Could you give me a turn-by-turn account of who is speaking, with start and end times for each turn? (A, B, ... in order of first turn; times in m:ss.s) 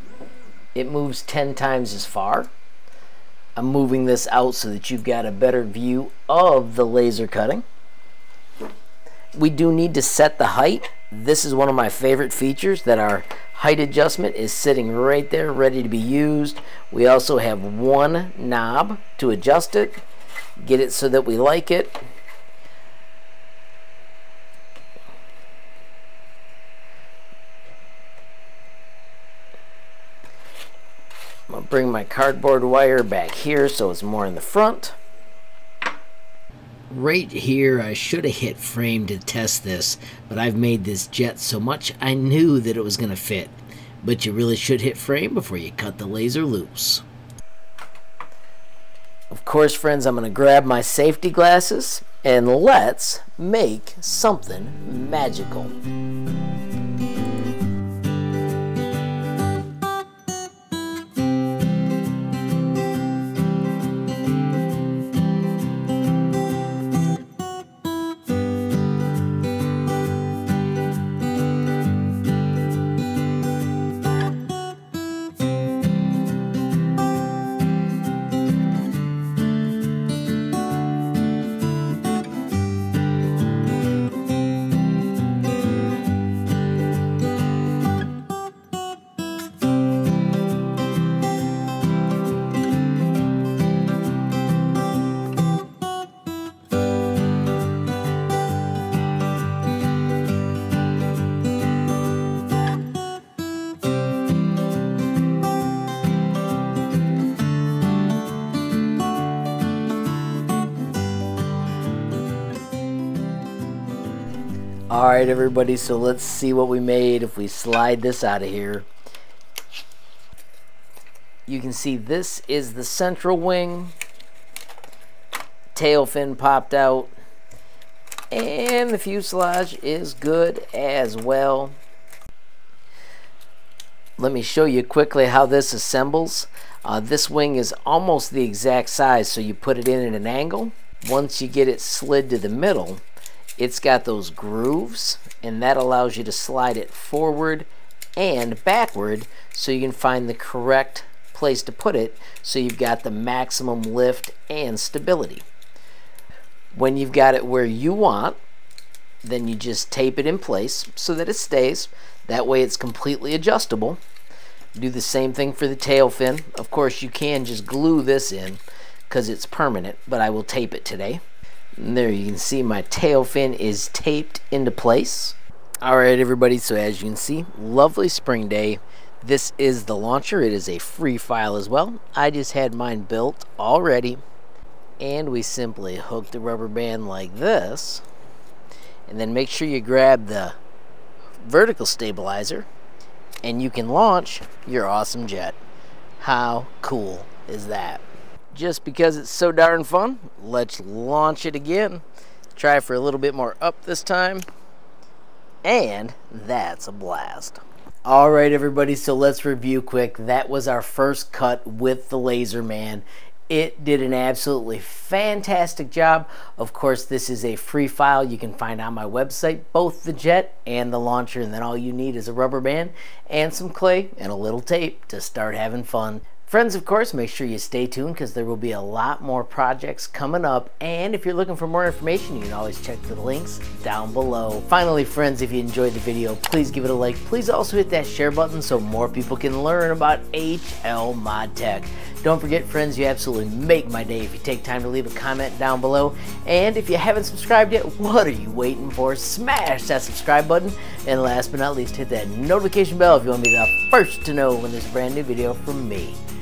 0:00.7-0:02.5 A
0:03.6-0:07.6 A
0:09.3-0:20.0 A
0:20.6-0:22.0 A
0:31.5-0:34.9 A
0:36.9-0:47.0 A
0:49.3-0:55.7 A
1:54.9-1:58.9 A
2:01.5-2:03.9 A
2:05.7-2:07.1 A
2:08.3-2:11.8 A
2:14.2-2:23.0 A
2:23.6-2:35.4 A
2:36.7-2:38.4 A
2:39.2-2:44.0 A
2:44.7-2:51.2 A
2:51.8-3:04.2 A
3:05.0-3:08.0 A
3:09.1-3:10.6 A
3:11.4-3:12.7 A
3:13.4-3:15.6 A
3:16.2-3:22.0 A
3:22.5-3:24.4 A
3:25.6-4:16.2 A